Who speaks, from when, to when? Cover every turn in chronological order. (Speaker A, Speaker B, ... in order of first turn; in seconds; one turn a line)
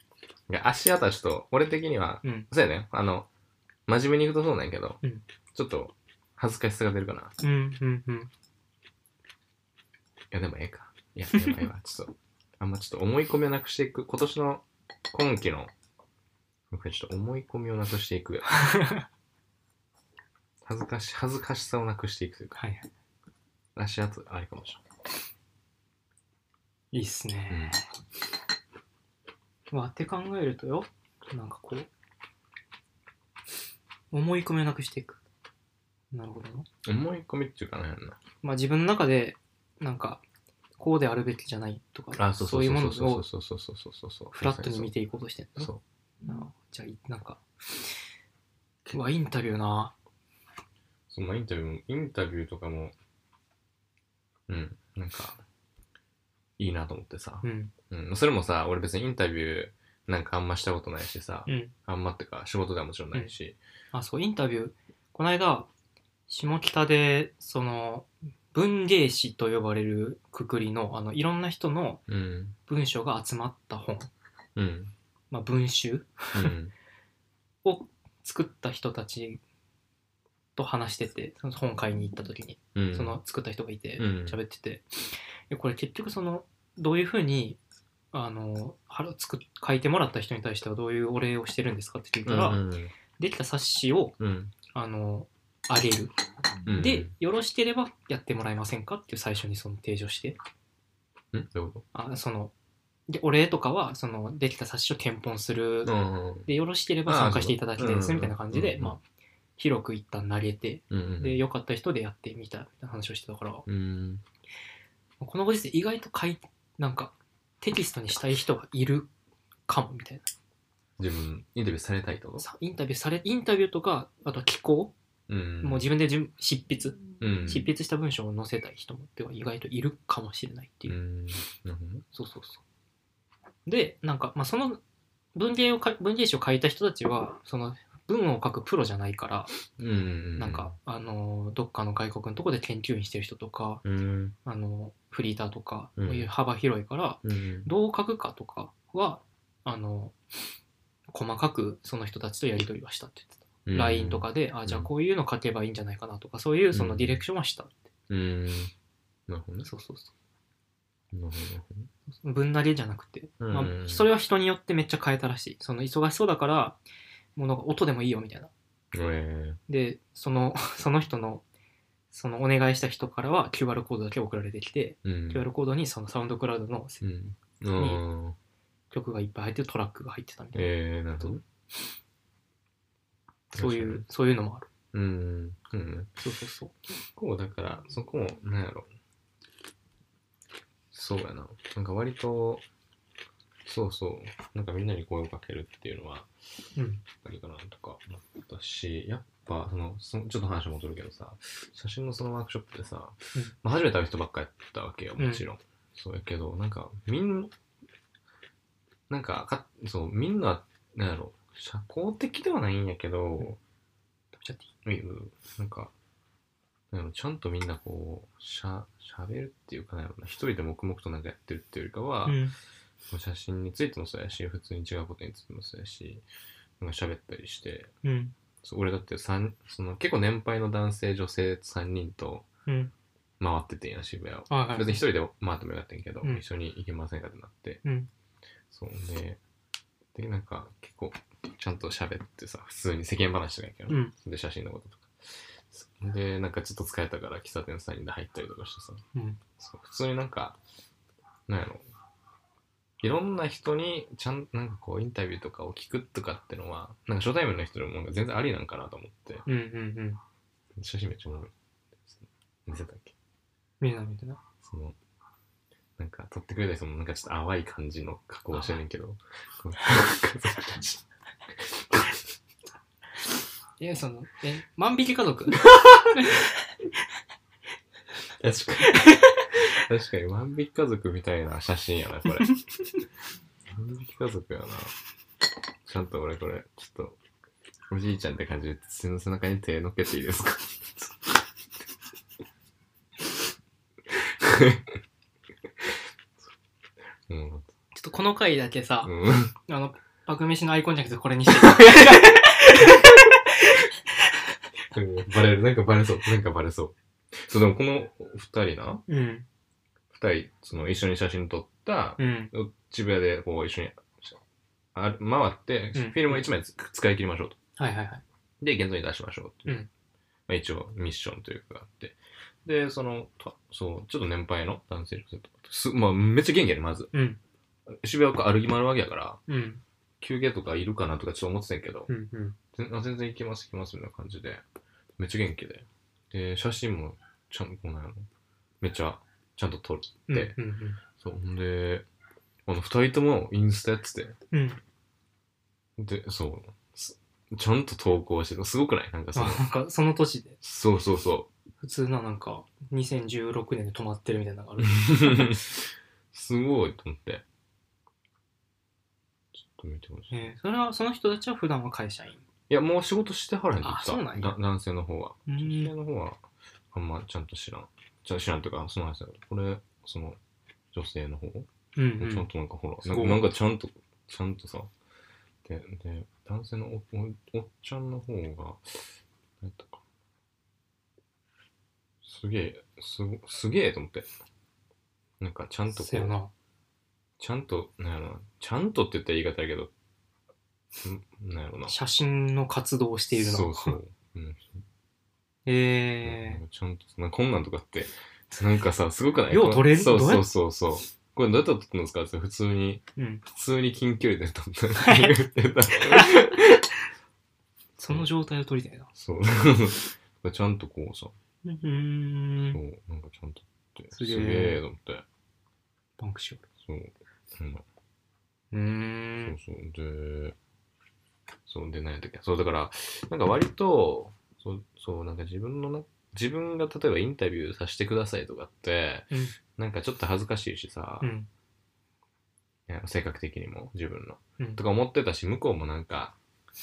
Speaker A: 0.5-3.3
Speaker A: 3.9-5.0
Speaker A: 5.5-7.3
Speaker B: 7.4-8.3
Speaker A: 10.3-15.7
Speaker A: 16.7-18.7
Speaker B: 18.5-19.1
Speaker A: 20.6-22.6
Speaker B: 22.6-22.9
Speaker A: 23.8-24.8
Speaker B: 26.9-27.8
Speaker A: 27.5-27.8
Speaker B: 29.7-31.9
Speaker B: 34.1-35.2
Speaker B: 36.1-36.7
Speaker A: 36.8-38.2
Speaker B: 38.4-40.2
Speaker B: 40.8-43.3
Speaker A: 42.1-44.9
Speaker B: 44.4-45.7
Speaker B: 46.2-47.9
Speaker B: 48.9-49.9
Speaker A: 51.1-52.9
Speaker A: 54.5-55.4
Speaker A: 56.6-63.6
Speaker B: 57.4-57.7
Speaker B: 61.5-61.7
Speaker B: 63.9-65.7
Speaker B: 66.3-72.0
Speaker A: 72.1-72.5
Speaker B: 72.7-74.1
Speaker A: 74.6-74.9
Speaker B: 75.3-76.5
Speaker A: 76.3-76.7
Speaker B: 77.7-79.4
Speaker B: 80.6-87.6
Speaker A: 82.8-83.2
Speaker A: 84.0-84.4
Speaker B: 88.1-92.6
Speaker A: 92.3-92.9
Speaker B: 93.2-94.2
Speaker A: 94.2-94.5
Speaker B: 94.7-96.1
Speaker A: 96.7-97.1
Speaker B: 96.8-100.4
Speaker A: 101.3-101.8
Speaker B: 101.9-102.5
Speaker B: 103.1-105.9
Speaker A: 105.8-106.5
Speaker B: 106.5-109.0
Speaker A: 107.1-109.0
Speaker B: 109.6-113.7
Speaker A: 110.9-111.4
Speaker A: 113.7-114.2
Speaker B: 115.2-119.1
Speaker B: 119.7-120.3
Speaker A: 121.0-122.5
Speaker B: 122.4-124.9
Speaker A: 125.3-125.9
Speaker B: 125.6-131.0
Speaker A: 127.2-127.7
Speaker A: 130.9-132.1
Speaker B: 132.1-132.6
Speaker B: 133.7-134.8
Speaker B: 135.3-139.5
Speaker A: 139.8-140.7
Speaker B: 140.4-143.8
Speaker A: 143.8-144.3
Speaker B: 144.4-150.1
Speaker A: 146.0-146.3
Speaker A: 147.2-147.7
Speaker B: 151.1-157.8
Speaker A: 153.7-154.9
Speaker A: 156.7-157.2
Speaker A: 158.1-158.7
Speaker A: 159.3-159.7
Speaker B: 159.6-160.1
Speaker A: 161.1-161.9
Speaker B: 162.2-166.8
Speaker A: 163.4-164.1
Speaker B: 167.4-168.5
Speaker A: 168.9-169.6
Speaker B: 169.7-171.4
Speaker B: 172.1-177.0
Speaker A: 175.0-175.5
Speaker A: 177.0-178.4
Speaker B: 177.8-178.0
Speaker B: 178.9-181.4
Speaker A: 180.5-181.4
Speaker B: 183.5-184.7
Speaker A: 183.6-184.0
Speaker A: 184.9-186.1
Speaker B: 186.2-186.7
Speaker A: 187.2-188.9
Speaker A: 190.9-192.6
Speaker A: 193.7-196.3
Speaker B: 196.8-197.0
Speaker A: 197.2-207.5
Speaker B: 205.2-205.4
Speaker A: 209.1-213.6
Speaker B: 214.3-214.7
Speaker A: 214.8-215.9
Speaker A: 216.9-222.4
Speaker B: 222.2-222.6
Speaker A: 223.1-226.2
Speaker A: 226.8-227.9
Speaker B: 228.0-228.3
Speaker A: 228.6-232.5
Speaker B: 232.7-232.9
Speaker A: 233.4-237.8
Speaker B: 234.5-235.0
Speaker B: 237.8-238.1
Speaker A: 238.7-239.4
Speaker A: 240.2-249.0
Speaker B: 243.9-244.1
Speaker B: 249.2-249.4
Speaker A: 249.6-250.6
Speaker A: 251.5-251.9
Speaker A: 253.0-259.4
Speaker B: 259.5-260.2
Speaker A: 260.8-263.1
Speaker B: 263.8-264.4
Speaker A: 264.6-264.9
Speaker A: 266.0-271.0
Speaker B: 268.5-268.8
Speaker A: 271.6-272.2
Speaker B: 273.8-276.5
Speaker A: 275.6-276.2
Speaker A: 278.4-282.6
Speaker B: 278.8-279.8
Speaker A: 283.7-284.9
Speaker A: 285.9-287.2
Speaker A: 287.9-291.4
Speaker A: 294.1-295.0
Speaker A: 297.3-297.7
Speaker B: 297.9-303.9
Speaker A: 299.0-299.5
Speaker A: 304.9-309.0
Speaker B: 309.1-309.5
Speaker A: 310.1-314.4
Speaker B: 312.2-312.5
Speaker A: 314.9-317.6
Speaker B: 315.9-316.5
Speaker B: 317.8-318.2
Speaker A: 318.6-319.8
Speaker A: 320.5-327.1
Speaker B: 327.1-327.4
Speaker A: 328.0-329.4
Speaker B: 329.5-329.8
Speaker A: 330.2-332.1
Speaker B: 332.1-332.6
Speaker A: 332.7-334.6
Speaker A: 335.2-338.3
Speaker A: 338.8-340.6
Speaker B: 340.3-341.0
Speaker A: 341.2-342.1
Speaker A: 342.7-344.4
Speaker B: 344.5-344.8
Speaker A: 346.0-349.6
Speaker B: 349.4-350.6
Speaker A: 350.6-351.5
Speaker B: 351.8-355.6
Speaker A: 354.9-357.4
Speaker A: 359.6-360.3
Speaker B: 360.3-362.4
Speaker A: 362.7-366.4
Speaker B: 363.8-364.6
Speaker B: 365.5-365.9
Speaker A: 366.9-370.4
Speaker A: 370.9-374.9
Speaker B: 372.0-372.5
Speaker B: 373.0-373.5
Speaker A: 375.6-379.1
Speaker A: 379.6-380.0
Speaker A: 382.2-384.3
Speaker A: 385.4-386.3
Speaker B: 385.9-386.5
Speaker A: 387.4-389.9
Speaker A: 391.0-391.9
Speaker B: 391.9-394.0
Speaker A: 393.3-394.8
Speaker B: 395.7-396.6
Speaker A: 396.2-406.9
Speaker B: 399.5-400.5
Speaker B: 403.2-403.4
Speaker B: 405.0-406.5
Speaker B: 408.0-409.1
Speaker A: 409.1-411.4
Speaker B: 411.6-412.8
Speaker A: 412.7-415.2
Speaker B: 414.1-414.8
Speaker B: 416.2-416.6
Speaker A: 416.8-417.8
Speaker B: 418.7-419.6
Speaker A: 419.4-420.6
Speaker A: 421.7-431.3
Speaker B: 431.2-431.5
Speaker A: 432.9-436.4